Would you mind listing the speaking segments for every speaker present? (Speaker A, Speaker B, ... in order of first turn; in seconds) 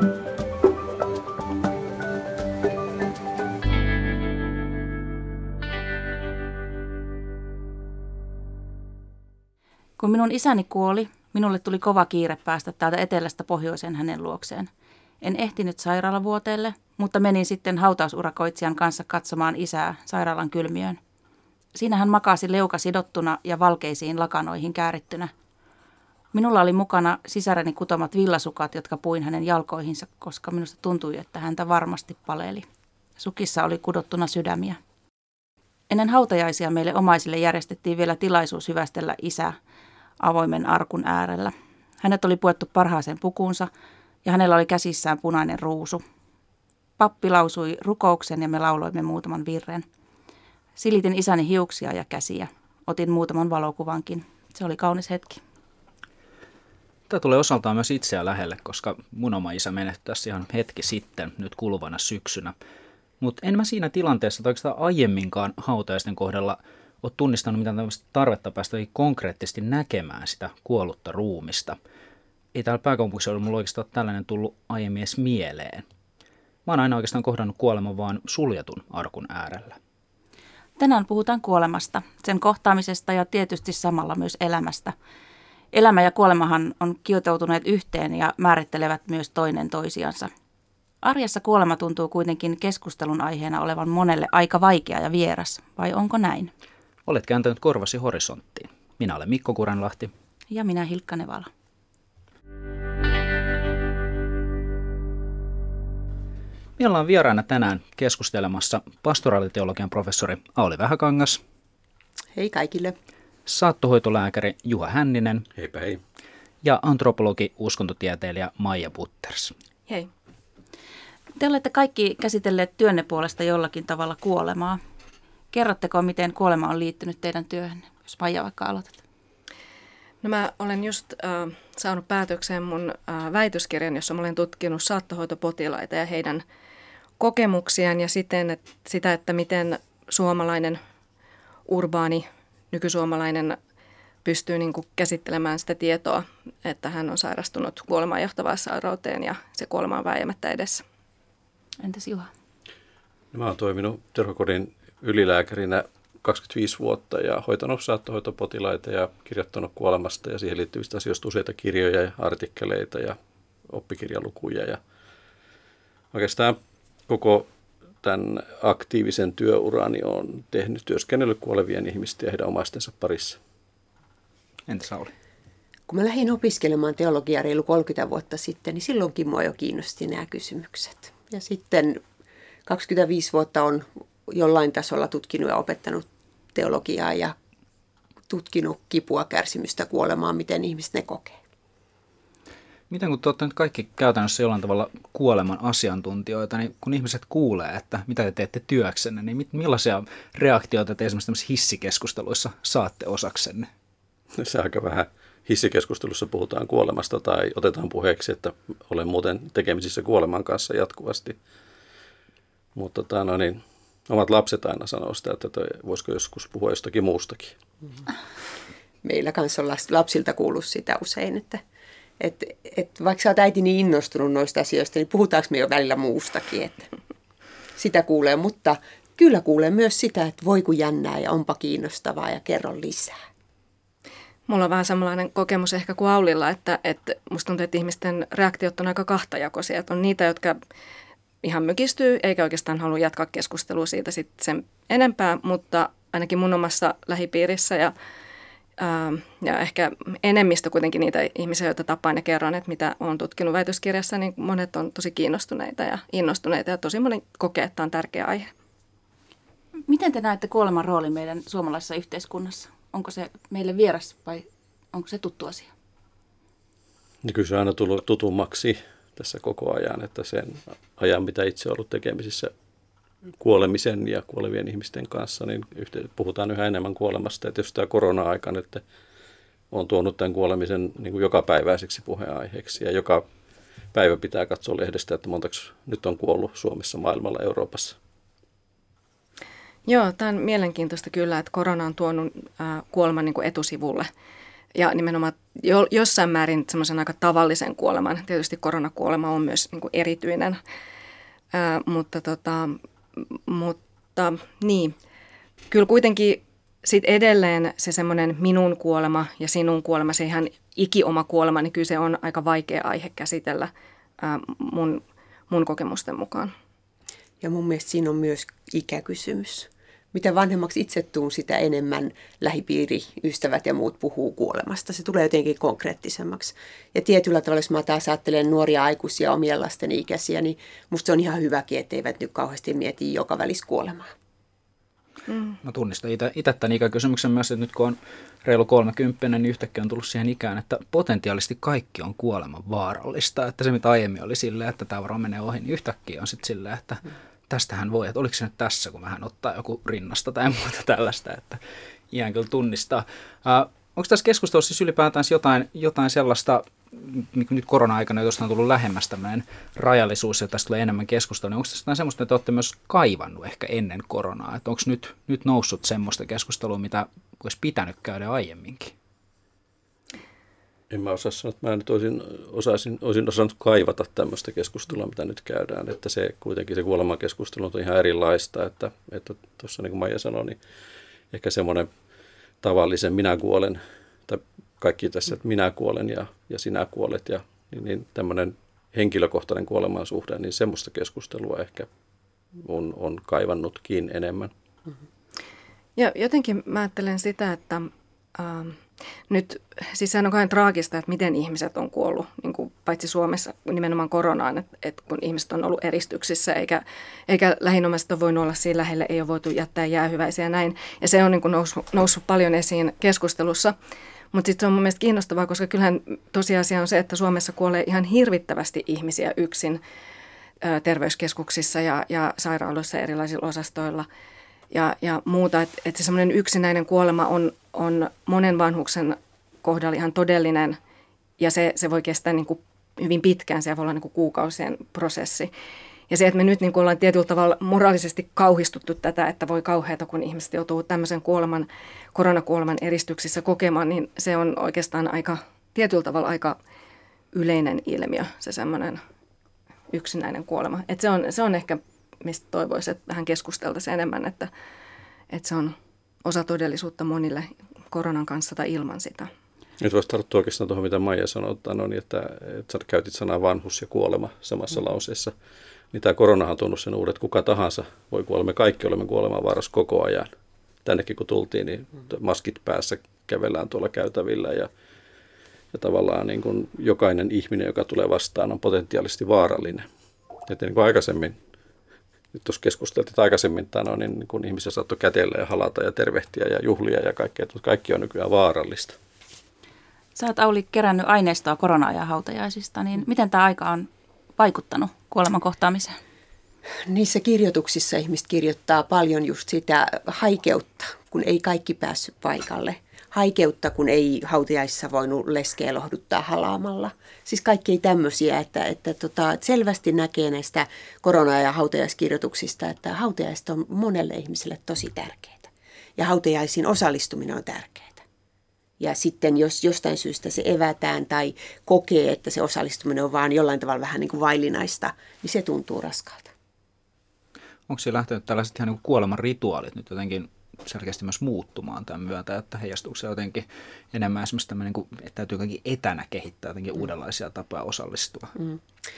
Speaker A: 10.0-14.7, 15.2-21.0, 21.7-25.3, 26.3-32.6, 33.2-34.8, 35.9-39.5, 40.2-43.7, 44.2-46.0, 47.0-49.8, 50.8-55.4, 80.8-84.9, 85.7-90.3, 91.0-96.5, 100.5-101.5, 121.4-124.8, 125.5-129.0, 151.8-152.3, 259.9-265.7, 490.1-496.0
Speaker B: 57.1-62.5, 63.2-71.8, 72.5-75.8, 76.7-79.8, 97.0-100.1, 106.8-111.4, 113.5-115.5, 116.6-119.5, 174.7-175.1, 192.9-203.7, 335.6-351.6, 352.1-368.9, 527.7-538.3
Speaker C: 112.3-113.0, 175.9-182.0, 182.7-187.3, 188.3-191.4, 219.0-221.6, 222.2-226.9, 227.8-233.2, 317.4-334.1, 496.9-518.0, 518.8-526.3
Speaker D: 115.5-116.0, 153.3-163.2, 163.7-164.8, 166.1-166.6, 167.1-167.5, 168.0-173.4, 204.4-211.4, 212.7-217.5, 267.2-272.5, 273.4-278.8, 279.7-283.2, 283.9-287.9, 370.9-380.6, 381.3-381.9, 382.6-391.9, 392.6-394.5, 459.8-465.3, 465.9-470.3, 470.8-474.7, 475.7-479.9, 480.5-481.4, 482.3-489.0
Speaker E: 130.2-136.4, 137.2-140.8, 141.7-143.6, 144.2-150.8, 234.5-240.6, 241.4-247.9, 248.8-258.5, 289.9-294.1, 294.7-300.6, 301.5-304.9, 305.7-316.5, 335.3-335.5, 395.9-413.7, 414.3-419.8, 420.6-424.1, 424.7-430.8, 431.4-435.5, 436.1-446.6, 447.3-449.0, 449.9-454.5, 455.3-459.3